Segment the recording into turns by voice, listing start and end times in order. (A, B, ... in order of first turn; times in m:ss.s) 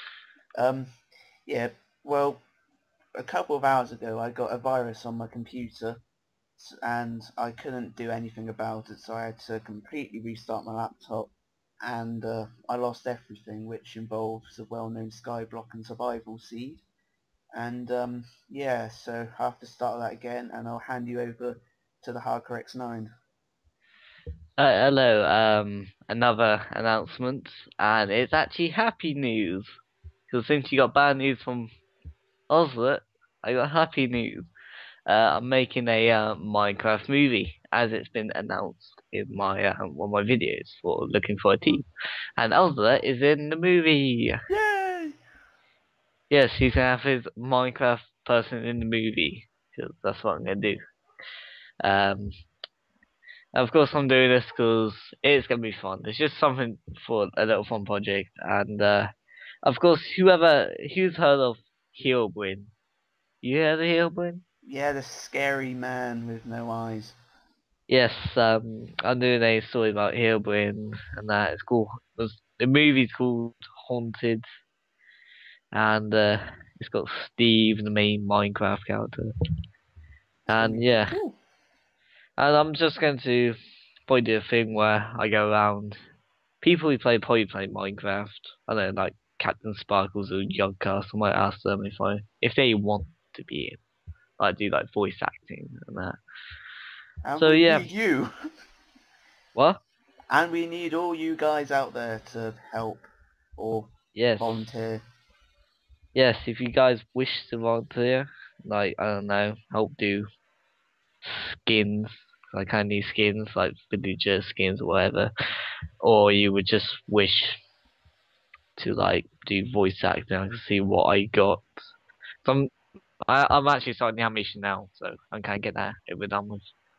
0:00.6-0:00.9 A
0:01.5-0:02.4 A
0:03.2-0:06.0 A
0:06.6-0:16.8 A
0:17.5-0:23.1 A
0:24.6-0:29.7 B
0:30.3-0:31.7 B
0:32.5-0:34.5 B
0:35.1-0:41.8 B
0:42.4-0:44.3 B
0:44.5-0:45.1 A
0:46.3-0:50.8 B
0:51.8-0:52.3 B
0:53.5-0:59.1 B
0:59.6-1:02.7 B
1:03.4-1:04.4 B
1:04.6-1:07.2 A
1:07.9-1:14.4 B
1:15.7-1:19.3 B
1:20.5-1:21.4 A
1:20.5-1:21.2 B
1:22.4-1:23.6 B
1:24.1-1:26.0 B
1:26.6-1:33.8 B
1:34.4-1:36.2 B
1:37.2-1:38.3 A
1:37.4-1:37.9 B
1:39.5-1:39.8 B
1:40.3-1:43.0 A
1:43.6-1:45.0 A
1:44.1-1:44.5 B
1:46.1-1:50.2 B
1:51.2-1:55.3 B
1:56.0-1:57.6 B
1:58.8-2:01.6 B
2:02.4-2:02.7 B
2:03.3-2:06.7 B